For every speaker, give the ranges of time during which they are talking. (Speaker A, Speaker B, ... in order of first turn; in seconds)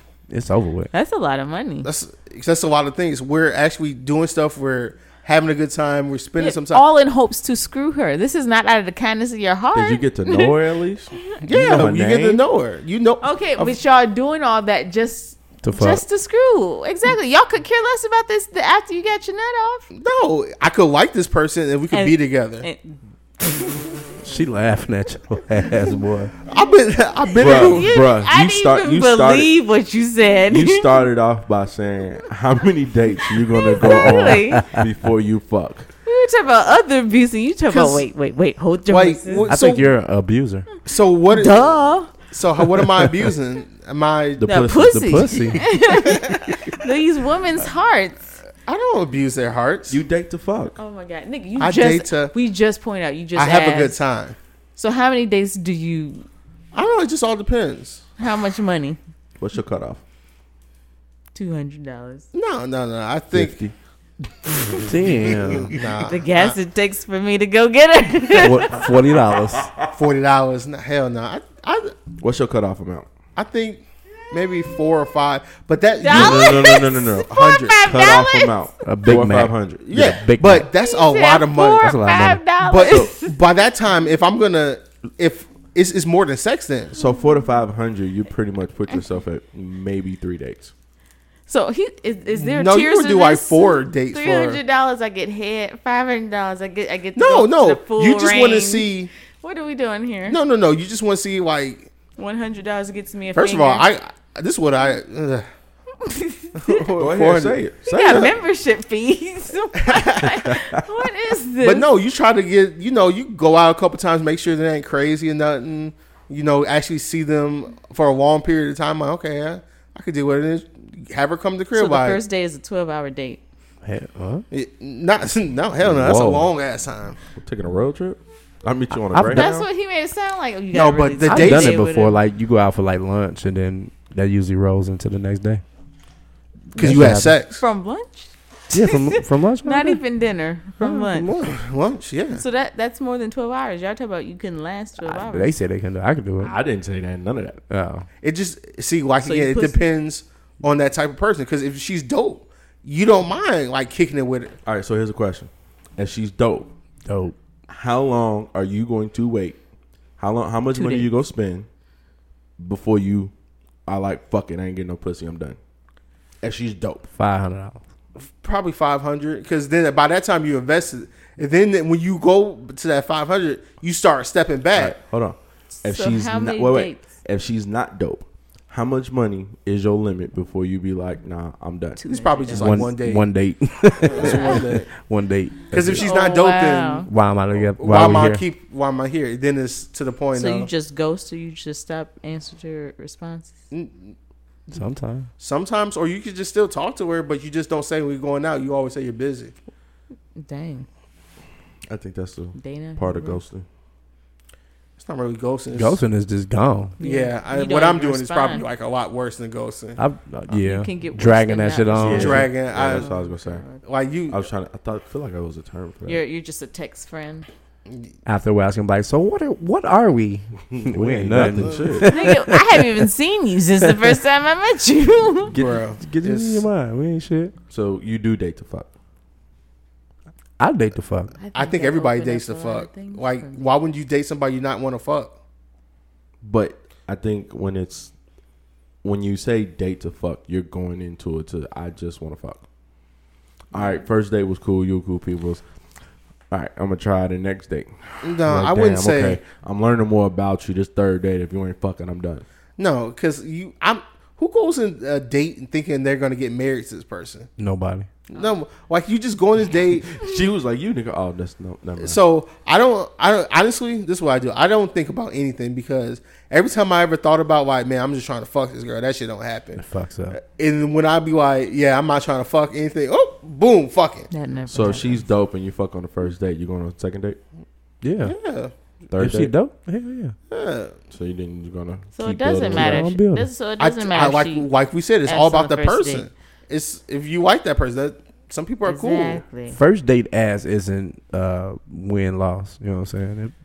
Speaker A: 0.3-0.9, 15.6-16.0, 24.2-26.3, 39.5-40.7, 44.9-45.7, 64.8-65.8, 68.3-69.7, 78.8-80.7, 81.8-82.4, 123.8-124.4, 129.1-129.4, 131.2-135.6, 136.8-137.3, 138.7-140.0, 140.8-141.4, 145.0-146.5, 147.7-148.1, 157.1-157.3, 167.1-167.8, 182.5-186.1, 187.1-188.4, 194.7-195.3, 205.7-207.0, 210.0-212.5, 218.2-222.8, 226.0-227.5, 230.6-231.3, 257.6-258.1, 269.8-270.4, 278.0-278.3, 279.2-280.4, 282.7-283.5, 289.7-293.5
Speaker B: 0.9-1.9, 6.4-10.5, 13.2-19.9, 21.9-23.8, 27.4-31.0, 33.6-34.7, 36.0-39.5, 41.3-42.1, 44.5-48.3, 50.8-54.0, 54.8-56.2, 58.2-59.0, 61.3-62.2, 65.7-68.9, 74.4-74.7, 76.0-78.6, 80.7-83.4, 91.5-100.4, 102.2-103.9, 106.0-106.8, 107.8-111.9, 121.7-123.4, 129.3-132.2, 136.7-141.3, 142.3-145.5, 149.2-149.9, 160.7-161.1, 175.8-177.1, 181.9-182.9, 184.2-184.6, 186.0-187.1, 190.3-193.6, 200.3-200.9, 202.6-203.4, 207.0-208.7, 210.5-213.8, 216.0-217.5, 222.1-225.5, 231.4-233.7, 274.3-275.3, 282.1-284.7, 285.2-286.3, 288.8-289.8
Speaker C: 1.8-6.8, 11.4-13.8, 19.9-22.6, 26.4-27.9, 37.7-38.0, 38.9-39.9, 40.8-44.5, 48.6-50.0, 51.6-52.3, 53.3-54.4, 56.7-58.0, 62.3-63.7, 65.2-66.5, 69.9-71.9, 73.3-77.9, 79.8-82.0, 82.6-87.0, 92.4-94.6, 97.1-99.1, 100.3-101.9, 103.3-105.5, 106.5-107.6, 109.8-110.3, 111.6-122.2, 124.5-127.2, 130.7-131.8, 136.8-137.6, 141.2-142.4, 148.2-154.5, 168.2-175.0, 182.1-183.3, 184.0-184.9, 185.7-190.7, 193.7-194.1, 195.4-199.5, 205.0-206.0, 207.0-210.0, 212.1-213.1, 213.8-214.4, 225.5-226.7, 231.5-235.3, 248.2-249.4, 252.8-257.5, 258.3-260.2, 262.0-274.3, 278.2-278.7, 280.5-280.9, 283.8-289.4
Speaker D: 9.7-12.4, 27.4-29.5, 30.5-35.9, 44.4-45.3, 49.9-50.8, 59.4-60.0, 72.2-73.1, 76.1-80.2, 86.9-90.7, 107.0-108.3, 125.8-126.5, 127.4-129.7, 146.4-147.6, 154.6-156.7, 157.7-159.6, 160.2-161.7, 162.6-163.3, 163.9-165.6, 166.4-167.1, 174.7-182.0, 201.9-203.6, 212.0-213.6, 214.3-216.2, 220.7-222.1, 227.7-228.9, 236.4-238.1, 239.0-242.6, 243.7-245.6, 246.5-252.4, 260.1-262.2, 274.7-277.4, 279.1-279.5, 281.1-283.1